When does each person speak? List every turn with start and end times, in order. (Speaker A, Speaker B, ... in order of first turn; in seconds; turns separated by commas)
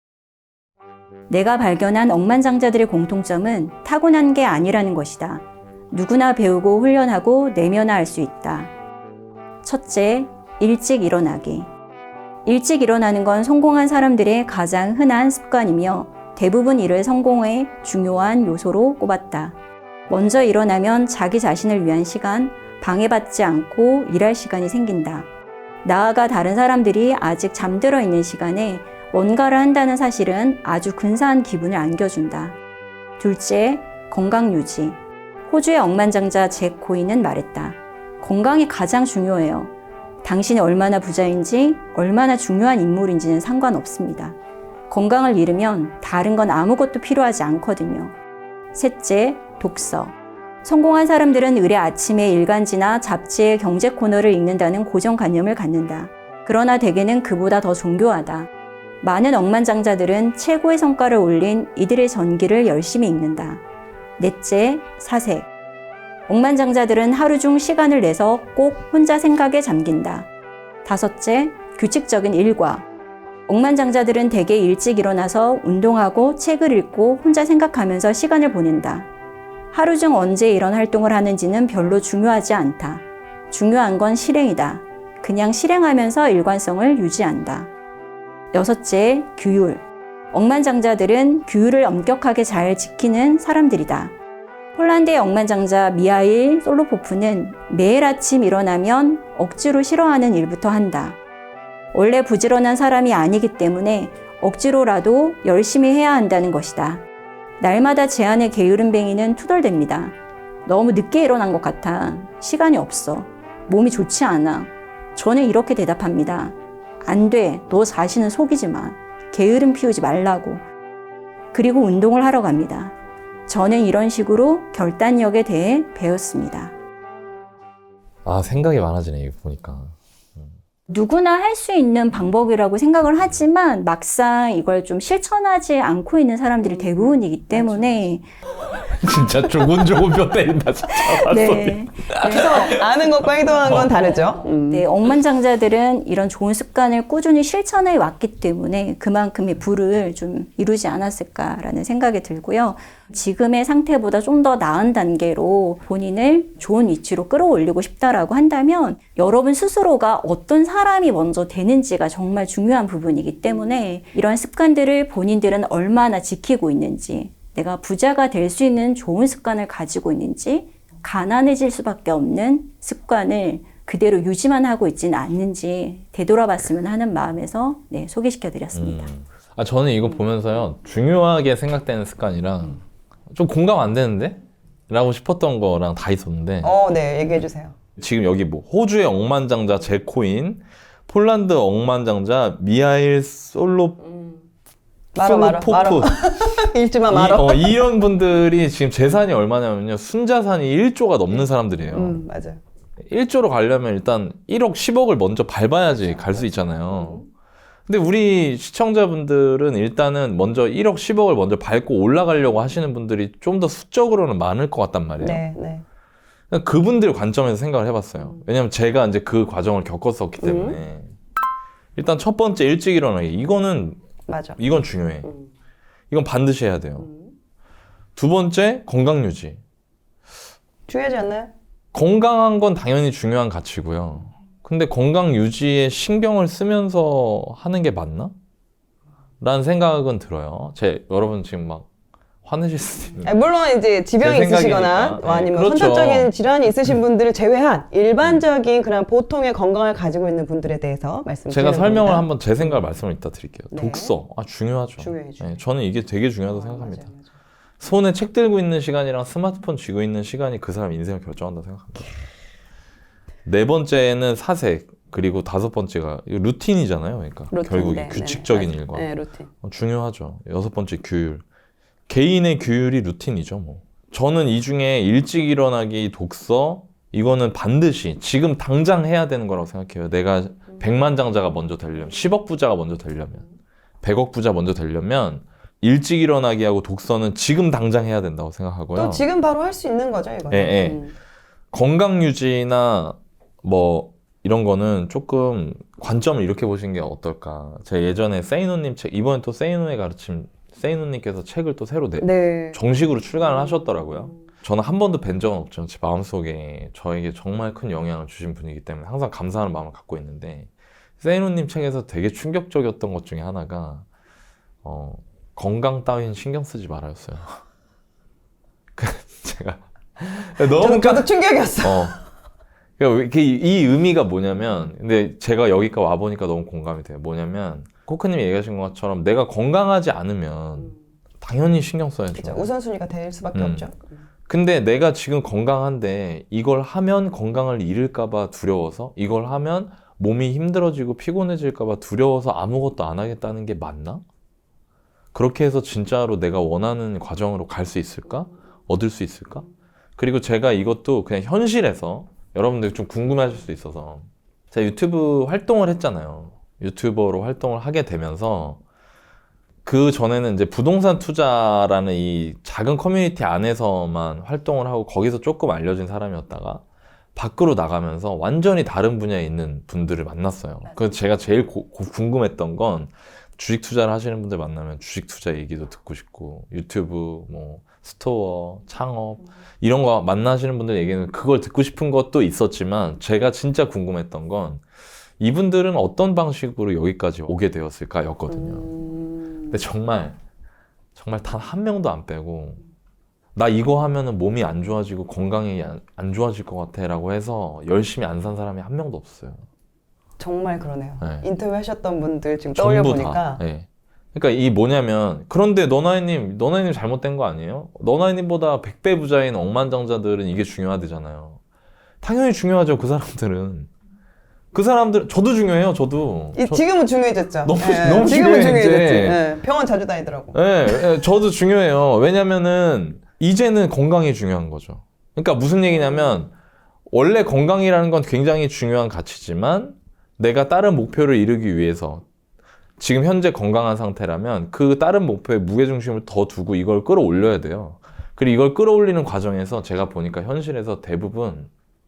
Speaker A: 1.3-8.7, Speaker A: 9.6-11.7, Speaker A: 12.4-19.6, Speaker A: 20.1-25.2, Speaker A: 25.8-32.6, Speaker A: 33.2-39.7, Speaker A: 40.2-44.4, Speaker A: 44.9-48.1, Speaker A: 48.7-58.5, Speaker A: 59.0-63.6, Speaker A: 64.2-65.5, Speaker A: 66.3-70.3, Speaker A: 70.8-72.8, Speaker A: 73.5-79.1, Speaker A: 79.7-87.7, Speaker A: 88.5-94.1, Speaker A: 94.7-101.2, Speaker A: 101.9-107.0, Speaker A: 107.6-120.7, Speaker A: 121.5-122.9, Speaker A: 123.5-126.7, Speaker B: 128.2-130.5, Speaker A: 130.9-138.2, Speaker C: 136.6-138.0, Speaker B: 138.9-142.8, Speaker A: 141.3-142.7, Speaker C: 142.3-144.9, Speaker B: 143.6-144.1, Speaker A: 143.9-179.1, Speaker B: 178.7-186.7, Speaker C: 186.6-187.7, Speaker B: 188.0-194.1, Speaker C: 195.1-197.8, Speaker B: 195.2-196.5, Speaker B: 197.1-202.2, Speaker C: 201.3-202.6, Speaker B: 203.1-207.2, Speaker C: 206.0-207.2, Speaker B: 207.9-215.4, Speaker C: 215.2-215.8, Speaker B: 216.5-221.1, Speaker C: 220.4-220.8, Speaker B: 221.9-224.0, Speaker C: 224.3-224.6, Speaker B: 224.6-225.3, Speaker B: 226.1-227.1, Speaker B: 228.2-229.6, Speaker C: 230.9-231.5, Speaker B: 231.9-238.3, Speaker B: 239.4-241.9, Speaker B: 242.4-243.3, Speaker C: 243.2-252.3, Speaker B: 244.2-246.3, Speaker B: 251.5-257.1, Speaker C: 253.7-254.2, Speaker C: 255.0-255.6, Speaker C: 256.4-257.2, Speaker B: 257.8-262.1, Speaker B: 263.4-269.1, Speaker C: 267.5-269.5, Speaker B: 269.6-271.4, Speaker B: 272.1-283.4, Speaker B: 284.0-289.2, Speaker C: 288.9-291.1, Speaker B: 290.5-291.0, Speaker B: 291.7-314.1, Speaker C: 302.2-302.8, Speaker B: 314.8-317.6, Speaker B: 318.9-321.3, Speaker C: 320.6-322.1, Speaker B: 321.8-322.1, Speaker B: 323.0-332.7, Speaker C: 332.3-334.0, Speaker B: 333.5-333.9, Speaker B: 334.5-344.2, Speaker B: 345.3-349.6, Speaker B: 350.2-358.8, Speaker B: 359.8-366.8, Speaker B: 367.4-384.8, Speaker B: 385.4-389.0, Speaker C: 388.7-389.3, Speaker B: 389.7-390.4, Speaker B: 391.1-392.8, Speaker B: 393.5-399.6, Speaker C: 400.4-403.6, Speaker B: 401.2-401.4, Speaker B: 402.7-411.6, Speaker B: 412.2-413.9, Speaker B: 414.7-416.8, Speaker C: 416.5-420.6, Speaker B: 417.6-419.4, Speaker B: 420.5-426.5, Speaker B: 427.1-432.2, Speaker B: 433.0-441.7